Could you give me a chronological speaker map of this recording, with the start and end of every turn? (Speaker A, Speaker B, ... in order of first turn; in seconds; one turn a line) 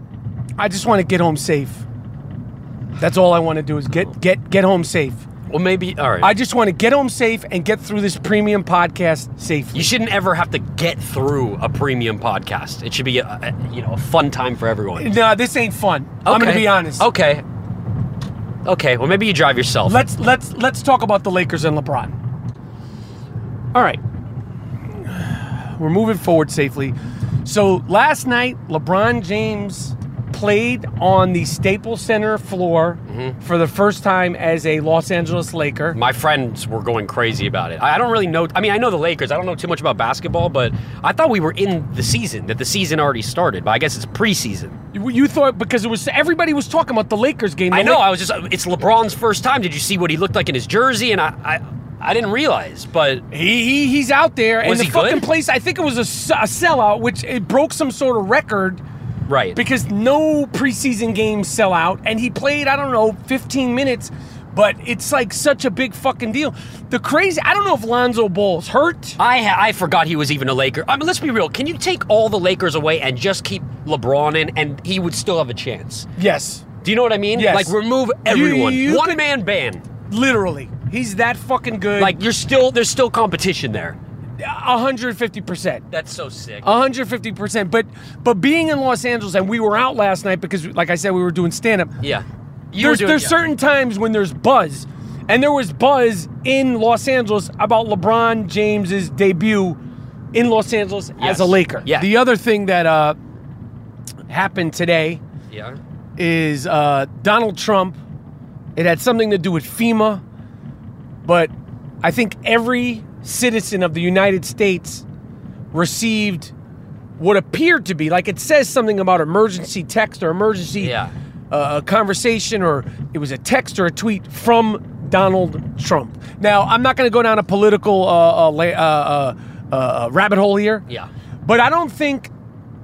Speaker A: 0.6-1.8
Speaker A: 3.0-5.2
Speaker B: 5.5-6.3
Speaker A: 6.2-9.9
Speaker B: 9.7-15.2
Speaker A: 15.0-17.1
Speaker B: 16.2-17.4
Speaker B: 18.6-20.0
Speaker A: 19.9-22.1
Speaker A: 23.7-24.0
Speaker A: 25.0-36.0
Speaker B: 33.1-33.4
Speaker B: 35.9-44.8
Speaker A: 44.9-48.0
Speaker B: 47.7-53.2
Speaker A: 53.3-58.8
Speaker B: 54.6-55.3
Speaker B: 59.3-59.6
Speaker A: 59.5-69.2
Speaker B: 69.2-76.1
Speaker A: 76.2-76.7
Speaker B: 76.8-79.8
Speaker A: 77.3-77.7
Speaker A: 78.2-79.2
Speaker A: 80.1-82.2
Speaker B: 82.0-84.0
Speaker A: 84.4-85.8
Speaker B: 85.9-86.6
Speaker A: 86.6-91.9
Speaker B: 92.0-93.3
Speaker A: 92.8-99.8
Speaker A: 100.3-103.2
Speaker B: 101.2-102.1
Speaker A: 104.3-105.2
Speaker B: 105.5-105.8
Speaker A: 106.2-108.0
Speaker A: 108.8-110.2
Speaker A: 111.2-115.0
Speaker A: 115.7-116.5
Speaker A: 117.2-120.9
Speaker B: 120.8-121.1
Speaker A: 121.5-130.8
Speaker A: 131.4-132.3